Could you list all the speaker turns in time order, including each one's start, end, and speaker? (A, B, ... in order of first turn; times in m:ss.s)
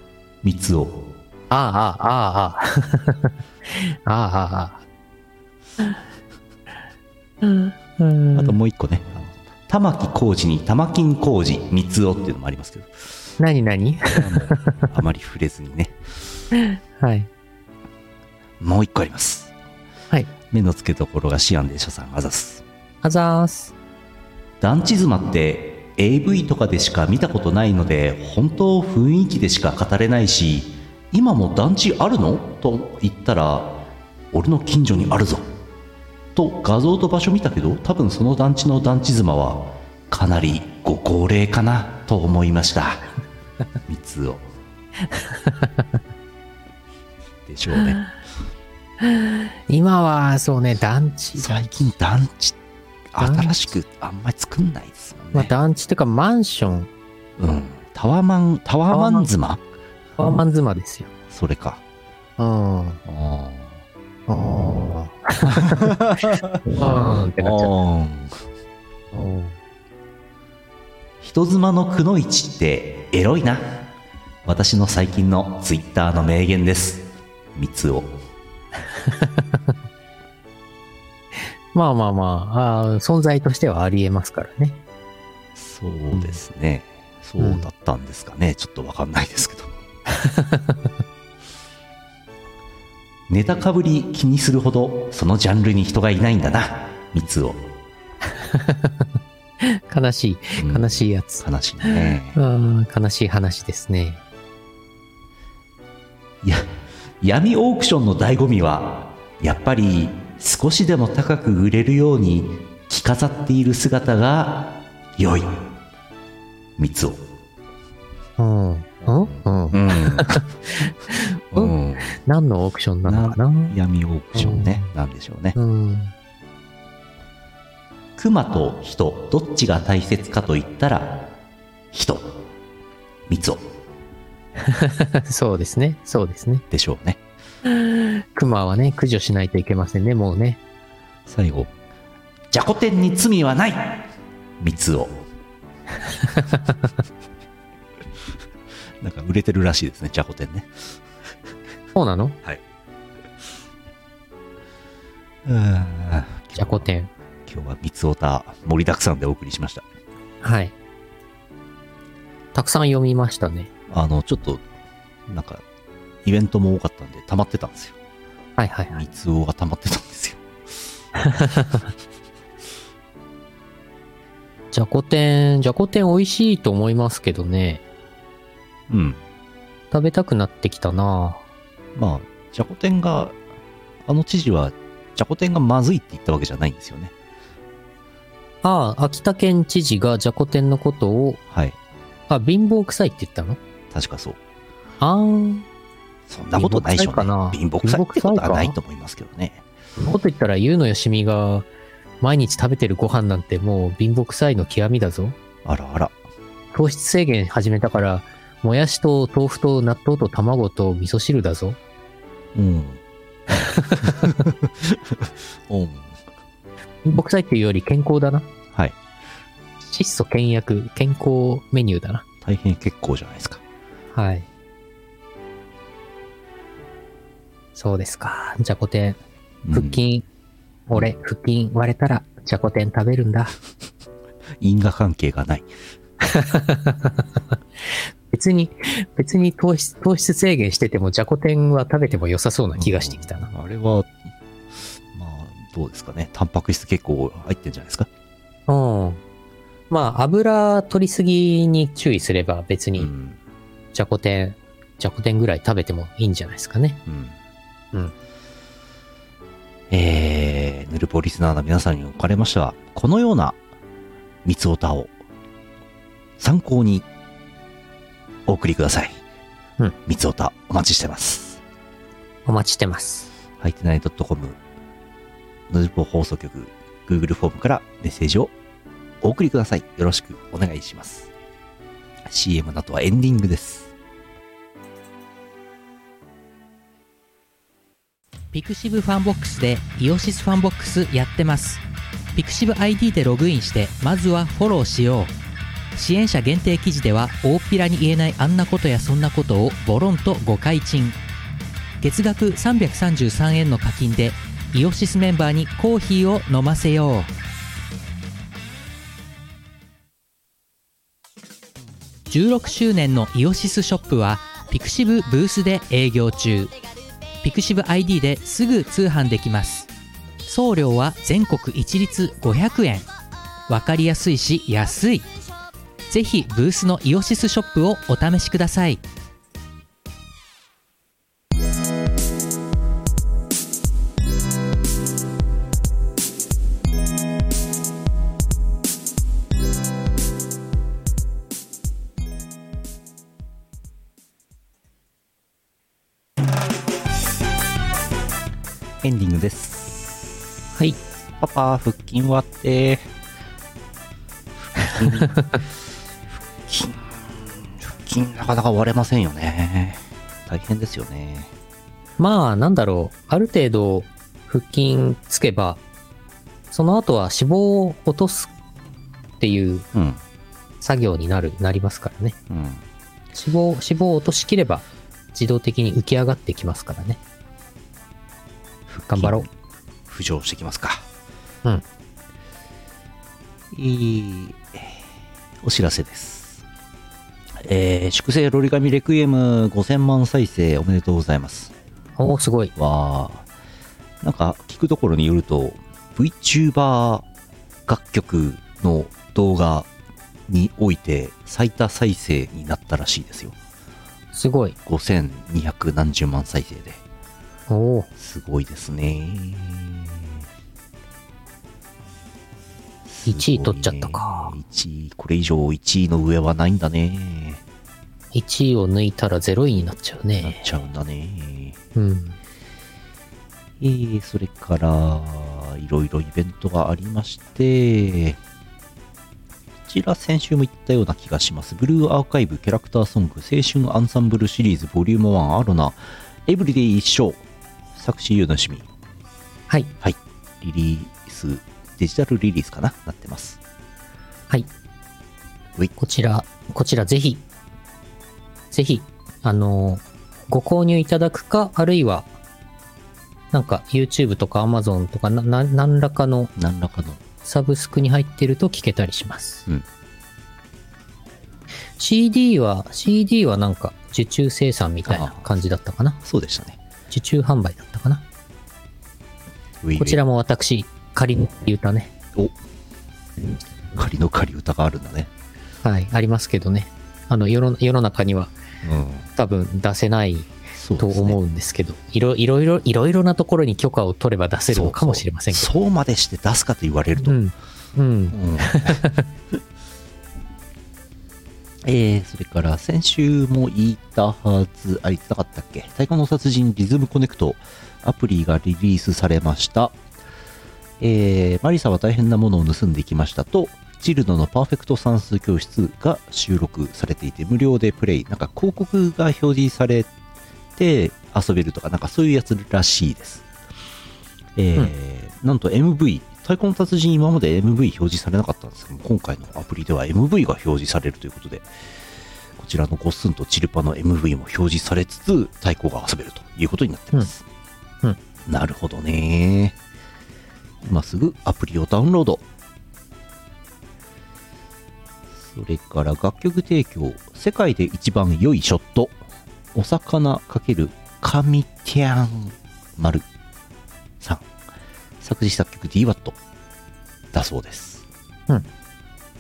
0:00.4-0:01.1 A
0:01.5-0:04.8 B
0:07.4-0:08.6 B
0:08.3-0:13.1 A
0:13.4-0:14.7 B
0:14.1-0:16.0 A
0:16.6-0:17.3 B
0:18.6-0:19.5 A
0:20.5-0:22.6 A
0:23.0-0:23.7 B
0:24.6-0:35.5 A
0:36.4-0:43.0 A
0:43.9-0:44.4 A
0:45.1-0:45.7 B
0:47.5-0:48.0 A
0:49.7-0:51.9 B
0:51.4-0:52.6 A
0:53.1-0:55.5 A
0:53.2-0:53.6 B
0:55.3-0:56.9 B
0:57.4-0:59.6 A
0:58.9-0:59.3 B
1:00.2-1:01.1 B
1:01.3-1:01.8 A
1:02.4-1:03.0 B
1:03.1-1:03.8 A
1:04.3-1:06.0 B
1:05.4-1:08.4 A
1:06.6-1:07.7 B
1:09.1-1:09.6 B
1:11.2-1:13.9 A
1:14.4-1:18.2 A
1:18.9-1:19.6 B
1:21.7-1:24.8 B
1:25.6-1:29.7 A
1:27.4-1:27.7 B
1:30.1-1:30.9 B
1:33.3-1:37.7 A
1:38.3-1:39.0 B
1:39.6-1:44.2 B
1:40.6-1:42.4 A
1:46.4-1:55.7 A
1:56.8-1:57.2 A
1:58.4-2:03.8 B
1:59.1-2:00.4 A
2:01.5-2:02.2 A
2:03.0-2:05.6 A
2:04.4-2:04.9 B
2:05.6-2:06.1 B
2:08.2-2:11.3 A
2:11.9-2:12.4 A
2:13.3-2:13.6 A
2:14.6-2:16.6 B
2:16.7-2:17.2 A
2:17.8-2:20.6 B
2:21.3-2:21.7 A
2:22.5-2:24.1 A
2:24.6-2:25.2 A
2:29.0-2:30.9 A
2:32.0-2:32.4 B
2:35.4-2:36.9 A
2:36.6-2:37.1 B
2:37.5-2:39.8 A
2:40.4-2:40.7 B
2:42.5-2:43.7 B
2:43.9-2:44.6 A
2:45.3-2:45.6 A
2:46.2-2:48.0 A
2:48.6-2:49.0 B
2:48.9-2:50.4 A
2:51.2-2:51.8 B
2:54.7-2:57.8 B
2:58.9-2:59.2 A
2:59.9-3:01.4 B
3:02.0-3:03.4 A
3:04.0-3:07.1 A
3:08.6-3:11.4 B
3:11.5-3:11.8 A
3:12.3-3:13.6 B
3:13.9-3:14.4 A
3:15.0-3:15.7 B
3:16.3-3:19.6 A
3:16.6-3:18.8 B
3:20.0-3:21.7 B
3:22.2-3:25.4 B
3:25.6-3:26.2 A
3:26.7-3:31.8 B
3:32.6-3:33.0 A
3:33.6-3:34.2 B
3:34.0-3:36.2 A
3:37.0-3:38.5 B
3:39.8-3:42.2 B
3:42.4-3:43.6 A
3:44.1-3:44.5 B
3:47.8-3:49.2 B
3:49.6-3:50.0 A
3:49.7-3:50.2 B
3:50.9-3:53.5 B
3:54.6-3:55.7 A
3:56.2-3:57.2 B
3:58.3-4:03.5 B
4:02.8-4:04.2 A
4:05.1-4:08.1 A
4:08.7-4:09.2 B
4:09.9-4:13.1 B
4:13.0-4:13.4 A
4:13.9-4:17.0 B
4:17.1-4:17.4 A
4:19.9-4:23.6 A
4:24.4-4:25.1 A
4:26.4-4:27.1 A
4:28.5-4:29.2 A
4:30.1-4:31.6 A
4:32.5-4:33.3 B
4:33.6-4:34.6 A
4:35.7-4:38.5 A
4:39.2-4:41.3 A
4:42.2-4:43.9 A
4:48.5-4:51.8 C
4:52.4-4:55.3 C
4:55.9-5:01.2 C
5:02.0-5:07.3 C
5:12.3-5:16.7 C
5:17.4-5:19.9 C
5:20.5-5:23.1 C
5:23.7-5:25.3 C
5:26.1-5:29.0 C
5:49.0-5:50.4 A
5:51.4-5:53.1 A
5:54.7-5:55.6 A
5:56.6-6:01.5 A
6:02.2-6:05.8 B
6:06.7-6:08.5 B
6:09.4-6:09.9 B
6:09.9-6:10.2 A
6:10.8-6:12.4 B
6:12.5-6:12.8 A
6:13.3-6:17.2 B
6:18.9-6:19.5 A
6:19.1-6:19.5 B
6:20.1-6:21.1 A
6:23.7-6:25.0 A
6:25.6-6:26.6 A
6:27.6-6:31.7 A
6:32.2-6:32.7 B
6:32.8-6:33.5 A
6:34.2-6:37.2 A
6:37.9-6:39.9 A
6:40.5-6:43.6 A
6:44.3-6:44.8 B
6:44.9-6:47.0 A
6:47.7-6:48.1 B
6:48.2-6:50.4 A
6:53.1-6:57.6 A
6:53.3-6:54.5 B
6:58.3-7:00.6 B
7:00.4-7:01.8 A
7:02.0-7:02.4 B
7:03.8-7:08.4 A
7:09.9-7:17.4 A
7:18.0-7:18.9 A
7:19.7-7:19.9 B
7:20.0-7:23.6 A
7:26.0-7:27.4 B
7:28.7-7:32.3 B
7:33.5-7:36.5 B
7:36.6-7:37.2 A
7:37.4-7:39.7 B
7:42.0-7:46.2 B
7:45.1-7:45.5 A
7:46.2-7:46.8 A
7:47.1-7:48.2 B
7:49.8-7:50.2 A
7:50.0-7:52.1 B
7:53.9-7:55.3 A
7:55.8-7:58.5 B
7:58.8-7:59.3 A
7:59.4-8:05.7 B
8:00.8-8:01.4 A
8:04.7-8:07.4 A
8:07.2-8:09.3 B
8:08.3-8:09.0 A
8:11.8-8:20.0 A
8:21.0-8:30.1 A
8:30.8-8:33.4 A
8:34.6-8:41.7 A
8:42.6-8:47.4 A
8:48.5-8:49.8 A
8:50.8-8:52.4 A
8:55.4-8:59.2 A
8:59.7-9:03.3 A
9:04.2-9:04.5 A
9:05.2-9:06.4 A
9:07.3-9:08.0 A